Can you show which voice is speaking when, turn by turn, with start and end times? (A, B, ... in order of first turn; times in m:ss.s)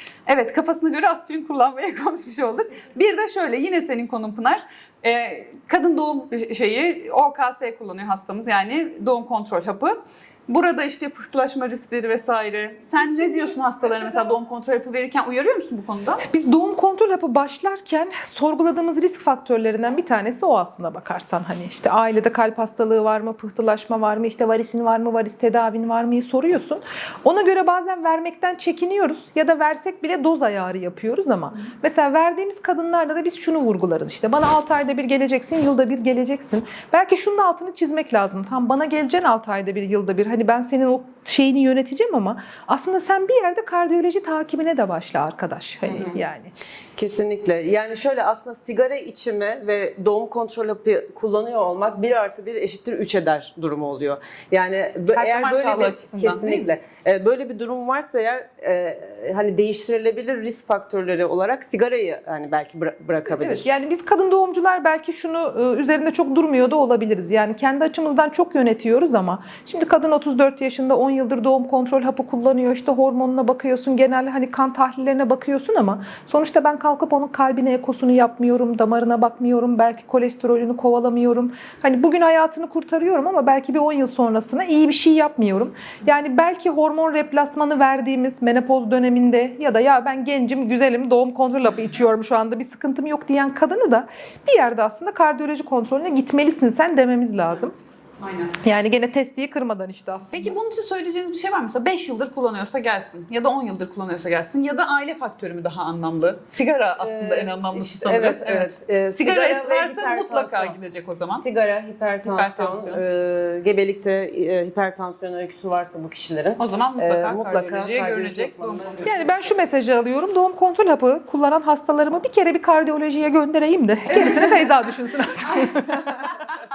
0:00.2-0:16.2 A
0:13.0-0:14.3 B
0:16.3-0:46.5 B
0:45.8-0:46.2 C
0:47.0-1:03.7 C
0:55.1-0:56.7 A
1:03.3-1:37.8 B
1:38.2-1:38.6 A
1:38.6-1:40.6 B
1:40.3-1:51.4 A
1:47.0-1:50.8 C
1:51.3-1:59.4 C
1:52.2-1:53.0 A
1:56.6-1:59.2 A
1:59.0-2:06.5 B
2:04.1-2:04.7 A